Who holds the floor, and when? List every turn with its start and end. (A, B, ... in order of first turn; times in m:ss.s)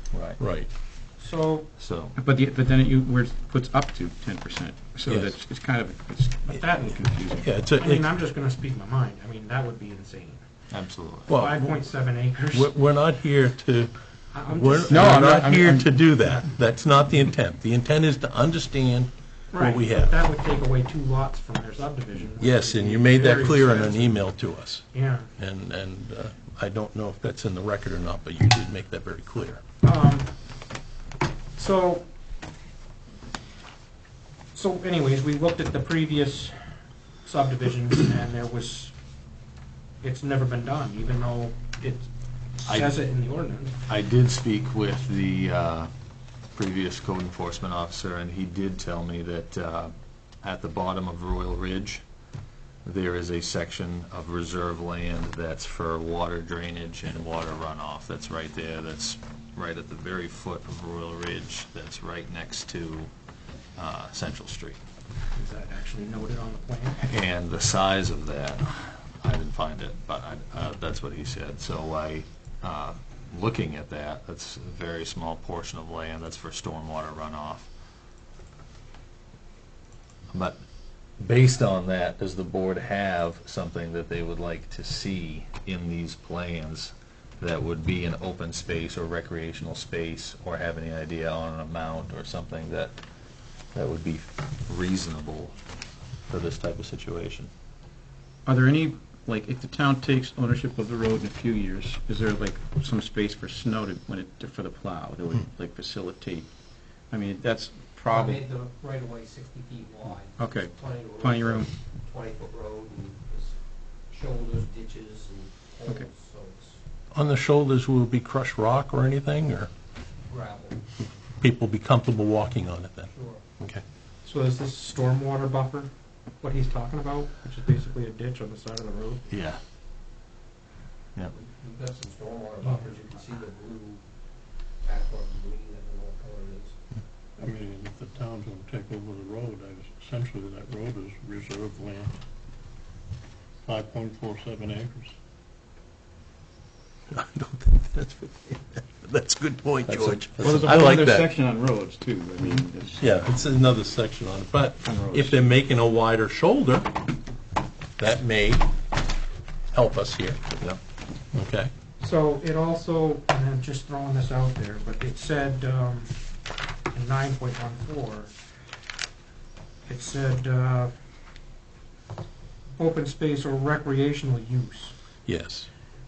0:00.1-0:00.4 A
0:00.4-0:00.7 B
0:01.2-0:01.7 C
0:01.8-0:02.2 A
0:02.2-0:07.7 D
0:05.1-0:05.4 B
0:06.5-0:07.0 C
0:07.4-0:08.1 B
0:07.6-0:10.4 C
0:10.7-0:11.3 A
0:11.3-0:11.8 B
0:11.3-0:12.7 C
0:12.5-0:20.2 B
0:14.3-0:15.4 C
0:14.9-0:16.0 D
0:16.0-0:16.5 C
0:19.5-0:24.3 C
0:22.4-0:24.9 B
0:24.9-0:25.3 C
0:25.4-0:29.6 B
0:29.8-0:30.3 C
0:31.6-0:32.0 C
0:34.5-0:36.6 C
0:37.2-0:38.9 C
0:40.0-0:43.7 C
0:42.7-0:42.9 A
0:43.9-0:45.9 A
0:46.6-0:52.0 A
0:52.8-1:03.1 A
1:03.8-1:04.8 A
1:05.3-1:07.0 C
1:07.0-1:17.7 A
1:20.3-1:20.6 A
1:21.2-1:33.0 A
1:33.7-1:35.6 A
1:36.3-1:37.5 A
1:38.5-1:46.5 D
1:47.1-1:48.4 D
1:48.1-1:56.8 E
1:50.4-1:51.7 D
1:57.1-1:59.7 B
2:00.3-2:00.8 E
2:01.4-2:03.8 B
2:03.1-2:03.4 E
2:04.2-2:09.3 C
2:09.3-2:09.6 A
2:11.3-2:14.0 E
2:14.8-2:16.8 E
2:17.4-2:22.1 F
2:23.6-2:25.1 F
2:27.1-2:31.3 B
2:29.9-2:33.2 D
2:29.9-2:30.6 A
2:33.0-2:37.0 B
2:34.8-2:35.4 D
2:38.0-2:38.7 B
2:39.7-2:40.4 B
2:41.3-2:41.7 B
2:42.0-2:46.2 C
2:46.9-2:48.3 C
2:49.9-2:50.9 C
2:52.8-2:54.9 C
2:55.3-2:55.7 B